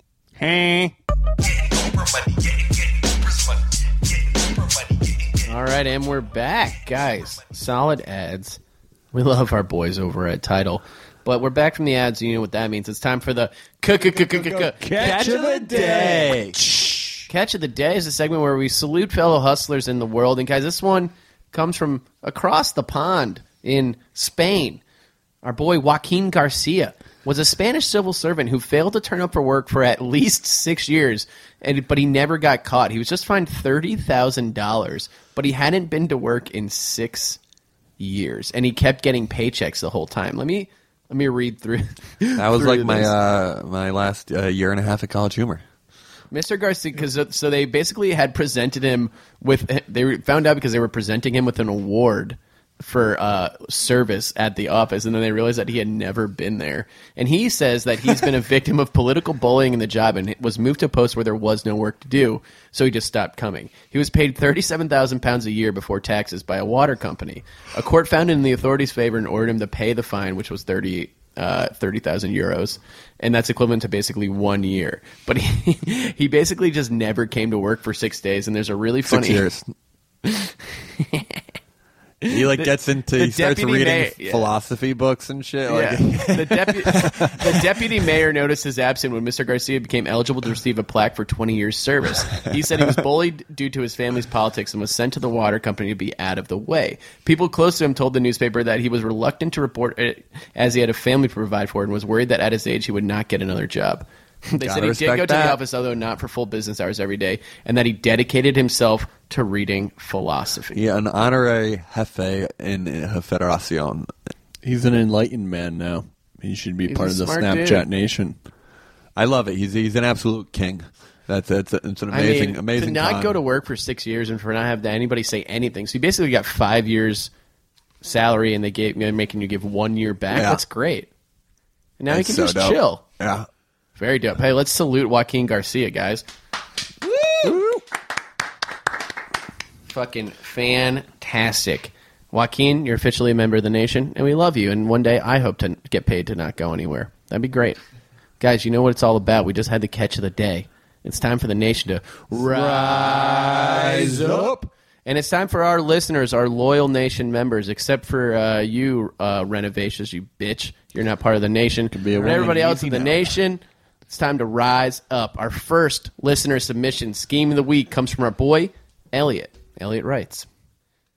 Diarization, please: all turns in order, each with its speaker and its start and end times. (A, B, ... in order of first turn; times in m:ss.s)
0:00.4-0:00.9 A
0:05.4-0:08.6 B
0:09.1-0:15.4 B
0:14.3-0:17.2 A
0:14.9-0:16.6 C
0:17.3-0:24.8 B
0:25.4-0:37.4 B
0:38.0-0:43.1 B
0:42.4-0:45.6 C
0:46.3-1:19.5 B
1:19.1-1:19.7 C
1:20.2-1:21.4 B
1:22.2-1:24.5 B
1:22.3-1:27.6 C
1:25.7-1:50.8 B
1:44.6-1:45.6 C
1:50.7-1:54.1 C
1:54.6-1:58.4 A
1:56.9-1:57.9 B
1:59.2-2:03.4 C
2:02.1-2:07.3 B
2:08.0-2:11.1 B
2:10.3-2:10.6 C
2:12.0-2:13.0 B
2:12.1-2:13.4 C
2:14.0-2:16.2 B
2:17.3-2:17.6 B
2:19.9-2:27.8 B
2:28.4-2:50.5 B
2:32.4-2:34.6 A
2:41.9-2:43.3 A